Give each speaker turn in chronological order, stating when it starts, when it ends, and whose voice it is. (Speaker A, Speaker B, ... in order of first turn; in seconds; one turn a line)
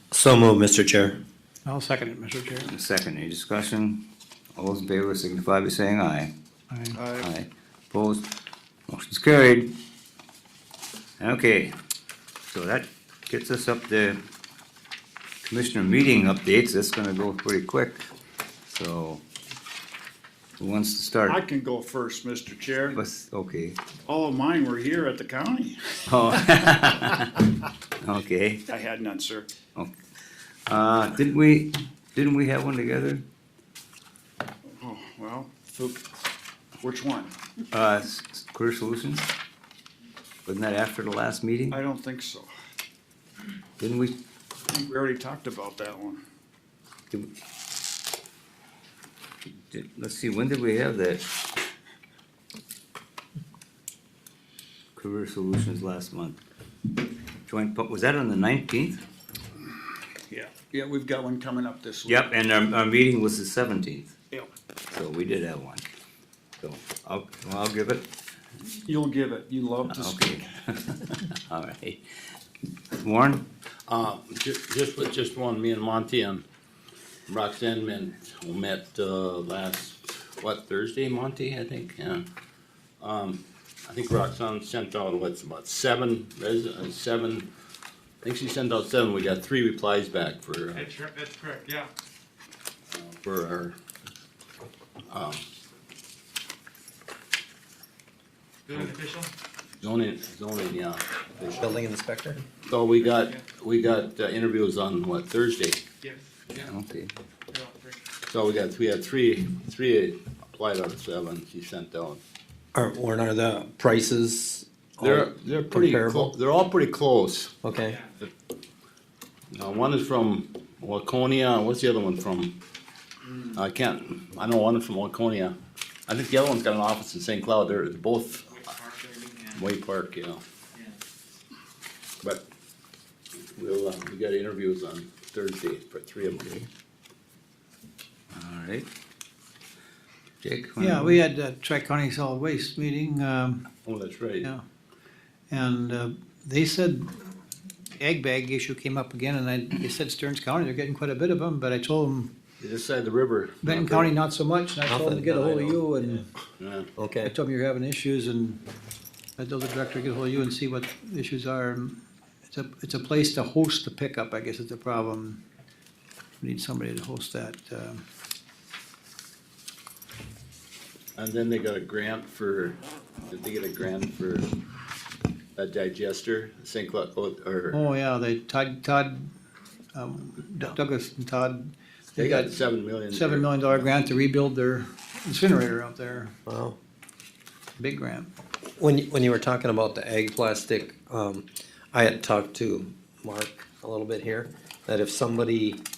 Speaker A: 0.1-1.2
Speaker B: 1.7-2.7
Speaker C: 2.6-6.3
Speaker B: 6.7-7.0
Speaker D: 6.9-7.3
Speaker C: 7.2-8.3
Speaker C: 8.9-9.8
Speaker C: 11.2-11.7
Speaker C: 12.5-14.2
Speaker C: 15.4-18.1
Speaker C: 18.7-19.2
Speaker C: 20.6-21.4
Speaker D: 21.3-23.0
Speaker C: 22.9-23.8
Speaker D: 24.1-26.0
Speaker C: 26.1-27.4
Speaker C: 28.0-28.6
Speaker D: 28.7-29.5
Speaker C: 30.7-33.2
Speaker D: 34.7-36.1
Speaker D: 36.8-37.3
Speaker C: 37.7-39.3
Speaker C: 40.5-41.8
Speaker D: 41.7-42.5
Speaker C: 43.8-44.2
Speaker D: 44.7-46.2
Speaker C: 49.7-51.3
Speaker C: 55.0-56.4
Speaker C: 57.5-59.0
Speaker D: 60.3-62.2
Speaker C: 62.1-64.2
Speaker C: 64.9-65.9
Speaker C: 66.6-68.1
Speaker D: 68.8-70.5
Speaker C: 69.9-72.0
Speaker C: 72.9-73.5
Speaker E: 73.9-76.4
Speaker E: 77.3-82.2
Speaker E: 83.0-87.5
Speaker E: 88.2-90.9
Speaker F: 90.8-91.9
Speaker E: 92.9-93.8
Speaker E: 95.1-95.4
Speaker F: 98.7-99.3
Speaker E: 98.7-99.0
Speaker E: 99.8-101.6
Speaker A: 101.6-102.4
Speaker E: 102.7-105.8
Speaker F: 103.1-103.4
Speaker F: 106.0-106.7
Speaker C: 106.5-107.1
Speaker F: 107.5-108.0
Speaker E: 108.3-112.2
Speaker A: 112.8-116.3
Speaker E: 115.0-117.6
Speaker A: 117.6-118.0
Speaker E: 119.5-122.6
Speaker E: 123.5-125.5
Speaker E: 126.1-128.6
Speaker F: 128.7-129.5
Speaker E: 129.5-130.4
Speaker E: 133.5-136.5
Speaker C: 136.4-136.7
Speaker C: 138.3-138.9
Speaker C: 140.4-141.2
Speaker B: 140.8-143.7
Speaker E: 143.8-144.5
Speaker B: 145.5-147.3
Speaker B: 147.9-152.3
Speaker E: 152.6-154.1
Speaker B: 153.6-156.3
Speaker A: 154.9-156.2
Speaker E: 156.6-156.9
Speaker A: 157.0-157.3
Speaker B: 157.2-158.6
Speaker B: 159.4-162.0
Speaker B: 162.5-165.4
Speaker B: 166.4-168.0
Speaker E: 171.2-174.6
Speaker E: 175.6-177.8
Speaker B: 177.7-179.3
Speaker B: 179.9-182.5
Speaker E: 182.2-183.9
Speaker B: 183.1-186.4
Speaker A: 186.5-186.8
Speaker B: 187.8-188.3
Speaker A: 188.8-195.8